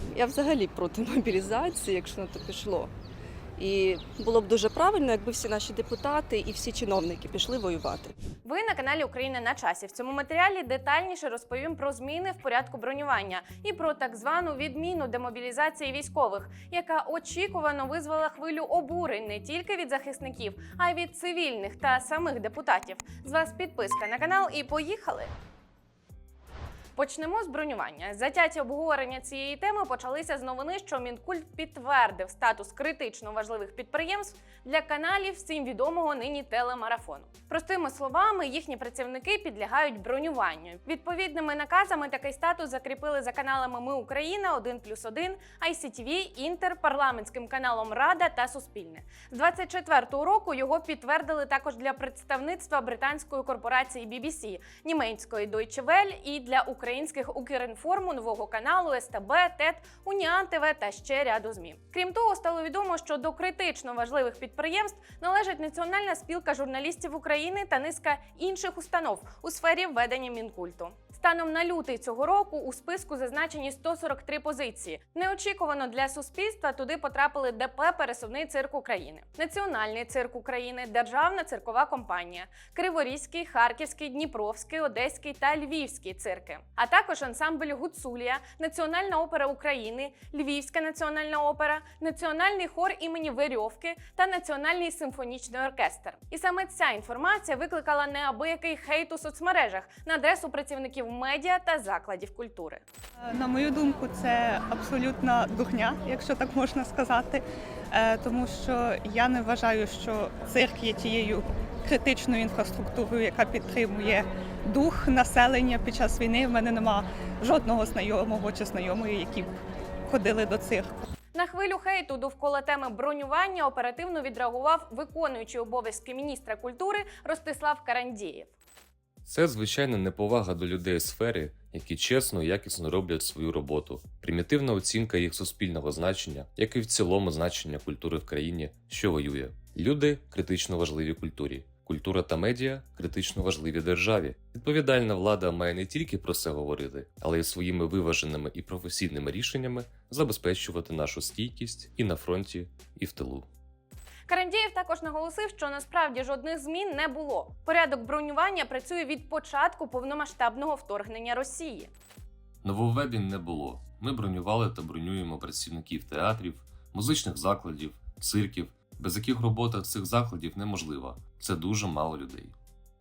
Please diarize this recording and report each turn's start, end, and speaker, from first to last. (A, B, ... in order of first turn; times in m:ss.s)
0:00.1-0:02.9 A
0:03.6-0:08.1 A
0:08.4-0:25.3 B
0:27.0-1:42.8 B
1:43.2-2:01.0 C
2:01.3-2:08.5 B
2:09.2-2:33.5 D
2:34.3-2:41.9 B
2:42.6-2:52.5 D